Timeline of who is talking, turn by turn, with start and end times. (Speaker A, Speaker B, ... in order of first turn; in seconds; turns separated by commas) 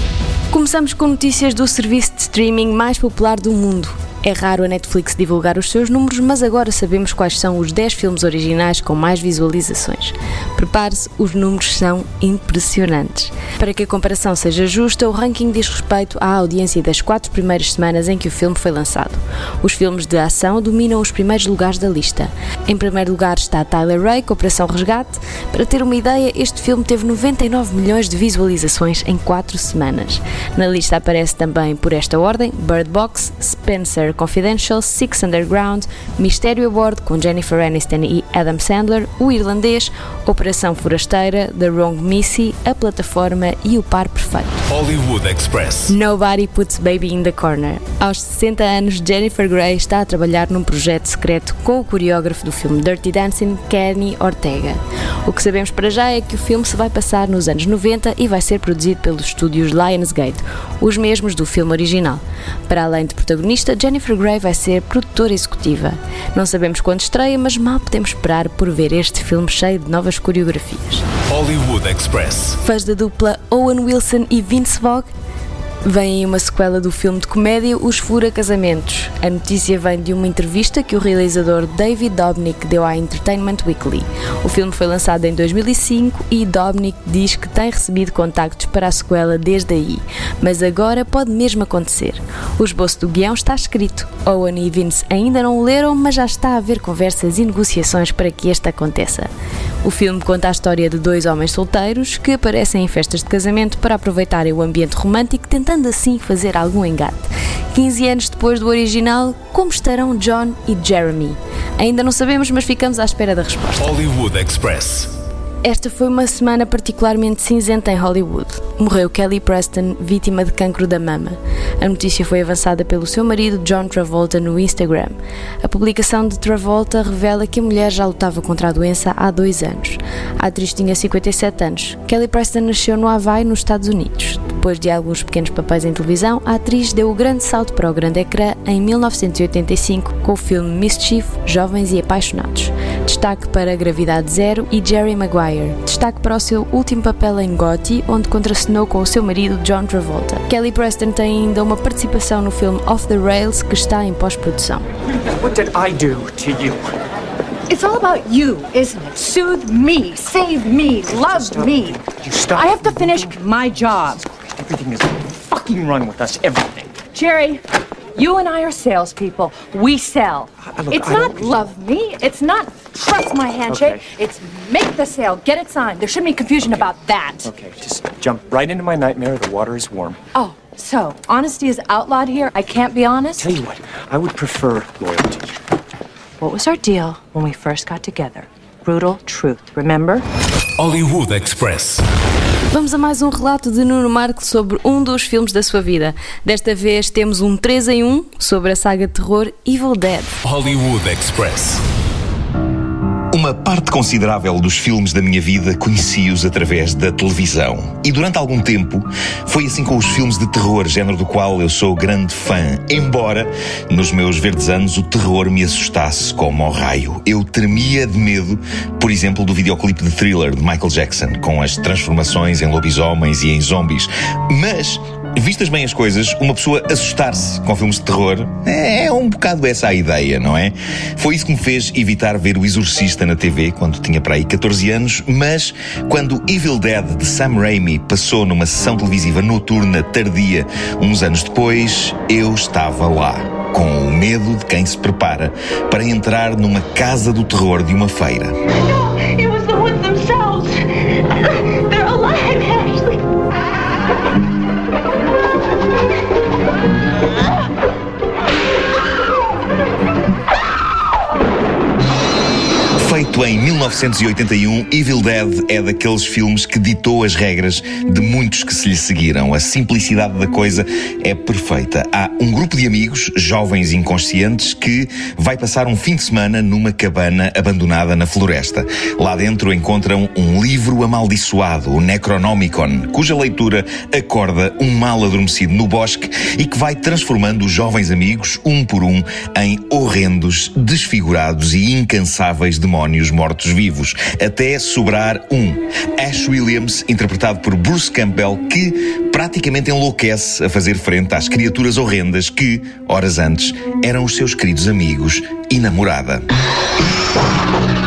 Speaker A: 0.5-44.6, Speaker B: 44.7-45.9, Speaker A: 45.9-71.0, Speaker B: 71.3-72.6, Speaker A: 72.6-75.1, Speaker A: 75.9-99.3, Speaker A: 99.8-113.9, Speaker B: 113.8-115.1, Speaker A: 115.6-154.8, Speaker C: 155.4-156.9, Speaker D: 157.7-164.4, Speaker C: 161.2-163.3, Speaker C: 164.6-167.0, Speaker D: 165.5-165.8, Speaker D: 167.0-167.6, Speaker D: 168.2-177.5, Speaker C: 170.7-171.6, Speaker C: 173.7-174.1, Speaker C: 177.4-180.2, Speaker D: 180.3-183.6, Speaker C: 183.4-185.5, Speaker D: 186.4-190.2, Speaker B: 190.8-192.0, Speaker A: 192.7-200.4, Speaker B: 200.4-201.8, Speaker E: 203.3-248.5, Speaker F: 249.4-250.7, Speaker F: 251.9-253.1, Speaker E: 263.0-306.5